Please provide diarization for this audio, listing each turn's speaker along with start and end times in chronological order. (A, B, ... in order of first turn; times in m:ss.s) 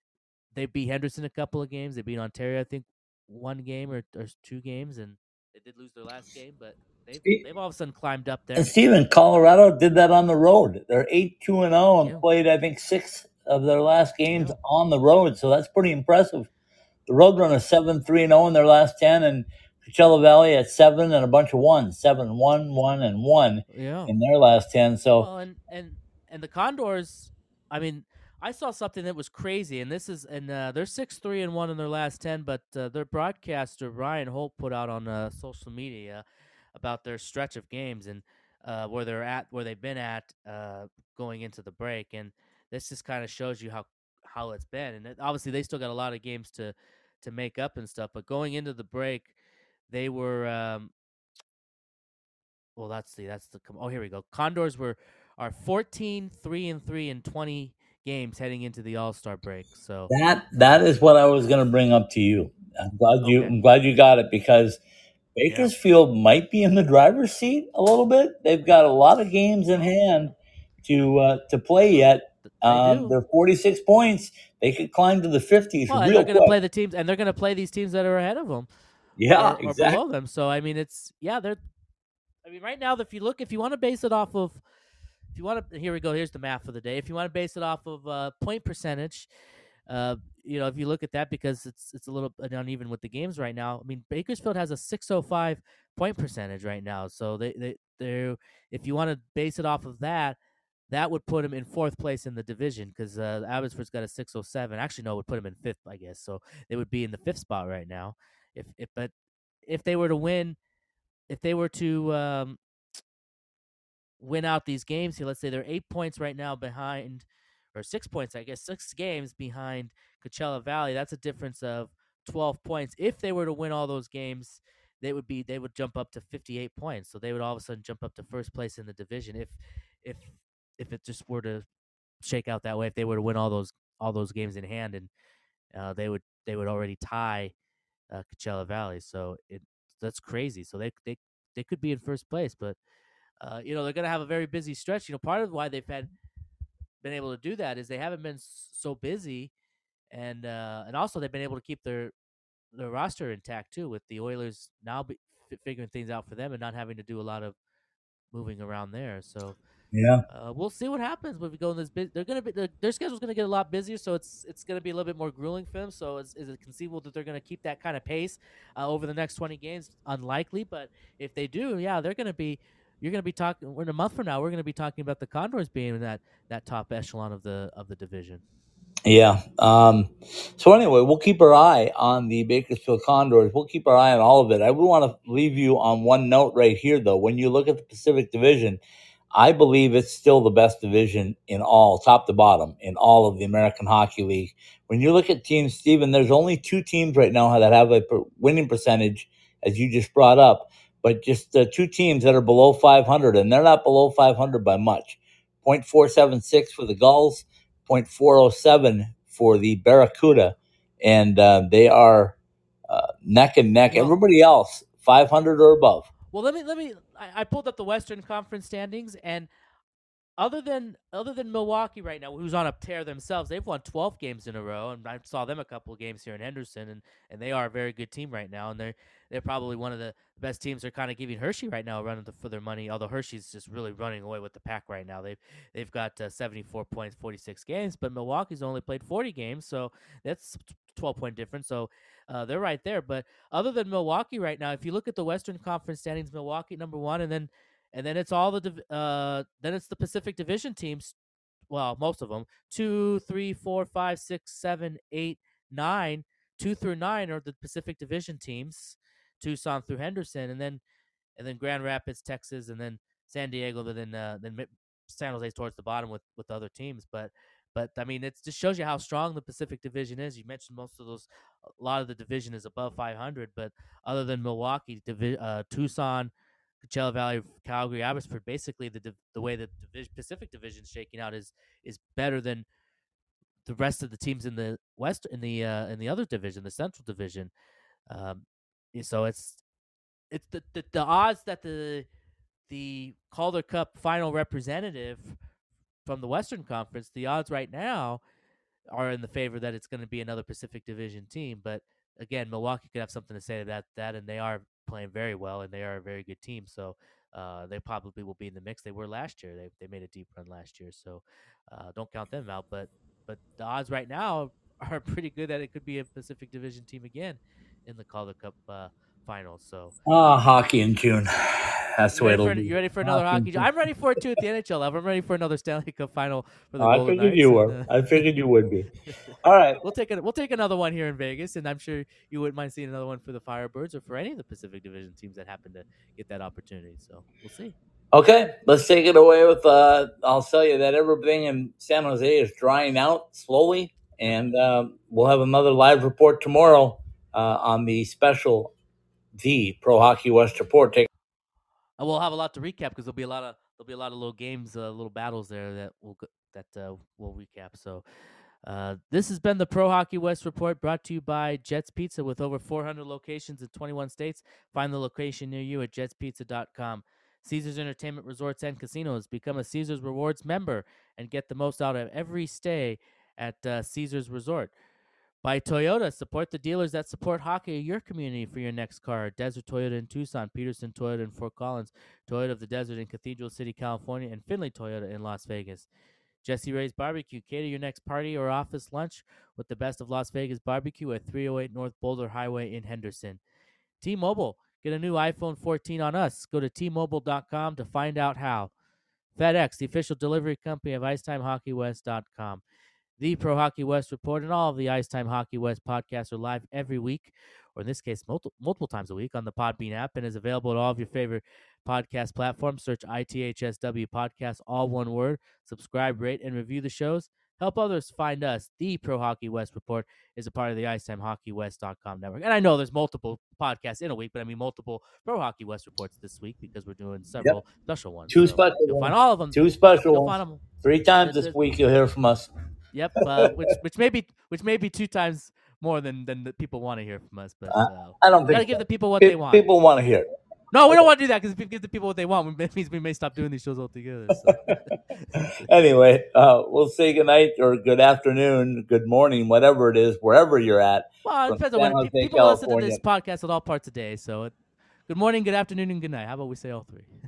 0:00.5-0:08.7 A
0:08.6-0:16.5 B
0:14.3-0:14.6 A
0:17.1-0:25.3 B
0:23.7-0:24.1 A
0:25.2-0:36.2 A
0:36.8-0:49.3 A
0:49.9-0:50.9 A
0:52.8-1:00.1 A
1:00.1-1:04.8 B
1:03.2-1:03.5 A
1:05.4-1:16.5 B
1:05.5-1:05.7 A
1:12.5-1:13.2 A
1:15.9-1:18.7 A
1:19.2-1:20.0 B
1:19.3-1:21.6 A
1:22.4-1:24.6 A
1:25.3-1:29.3 A
1:29.9-1:40.4 A
1:40.9-1:49.1 A
1:49.7-1:50.6 A
1:51.3-1:52.6 A
1:54.2-2:11.6 A
2:12.2-2:15.1 A
2:15.7-2:17.5 A
2:18.1-2:22.8 A
2:23.4-2:26.1 A
2:27.0-2:29.5 A
2:30.1-2:32.1 A
2:32.7-2:37.6 A
2:38.3-2:39.6 A
2:39.9-2:40.2 B
2:40.3-2:58.4 A
2:59.1-3:08.8 B
3:09.3-3:32.4 B
3:32.9-3:36.1 B
3:36.3-3:39.5 A
3:40.4-4:11.1 A
4:11.7-4:20.8 A
4:21.4-4:31.3 A
4:31.8-4:36.3 A
4:36.8-4:42.7 A
4:43.7-4:47.5 A
4:48.1-4:49.6 A
4:50.3-4:52.1 A
4:52.7-4:55.4 A
4:56.0-4:58.2 A
4:58.9-5:20.0 A
5:20.1-5:23.7 B
5:22.1-5:28.4 A
5:26.8-5:28.9 B
5:29.1-5:37.8 A
5:29.4-5:29.8 B
5:38.1-5:48.7 B
5:49.4-5:51.1 B
5:52.0-5:58.0 A
5:58.6-6:14.7 A
6:15.4-6:25.9 A
6:26.4-6:33.4 A
6:34.0-6:38.7 A
6:39.4-6:42.6 A
6:43.2-7:10.6 A
7:08.3-7:12.5 B
7:11.2-7:11.6 A
7:12.9-7:19.7 A
7:17.7-7:20.3 B
7:20.7-7:25.7 A
7:25.6-7:33.0 B
7:31.2-7:34.5 A
7:35.1-7:37.1 A